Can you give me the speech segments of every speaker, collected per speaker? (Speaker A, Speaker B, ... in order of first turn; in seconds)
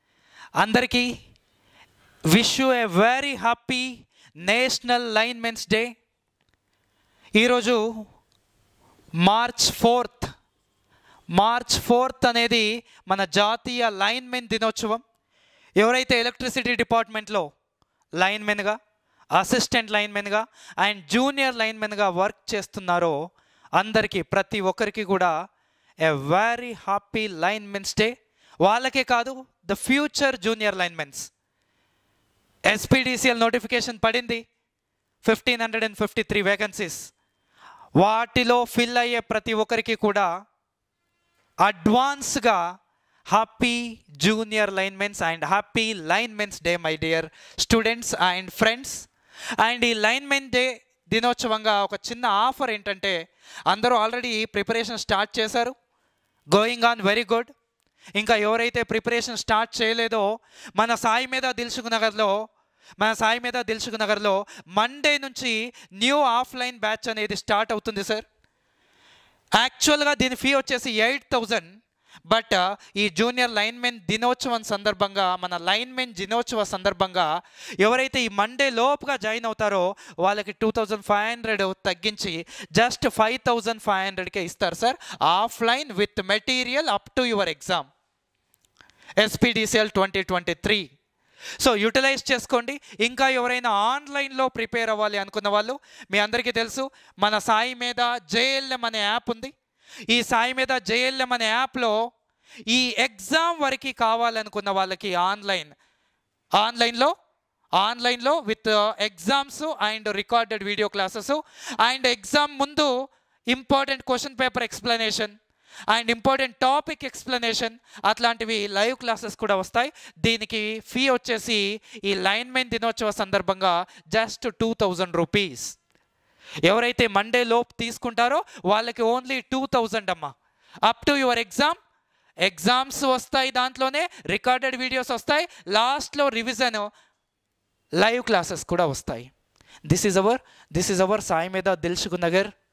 Speaker A: 0.6-1.1, 2.3-5.9, 7.4-7.8, 9.2-10.3, 11.3-15.0, 15.8-17.4, 18.2-18.8, 19.3-23.1, 23.8-25.3, 26.0-31.3, 32.7-34.4, 35.2-37.1, 38.0-40.3, 41.6-42.6, 43.3-49.1, 49.6-53.1, 53.7-55.7, 56.5-57.5, 58.2-60.2, 60.8-62.3, 63.0-68.2, 69.6-71.7, 72.3-77.3, 77.8-87.9, 89.2-90.8, 91.6-99.5, 100.1-102.0, 102.7-105.7, 106.6-107.1, 107.8-115.3, 115.9-125.8, 126.7-131.8, 132.4-136.9, 138.0-139.3, 139.9-142.5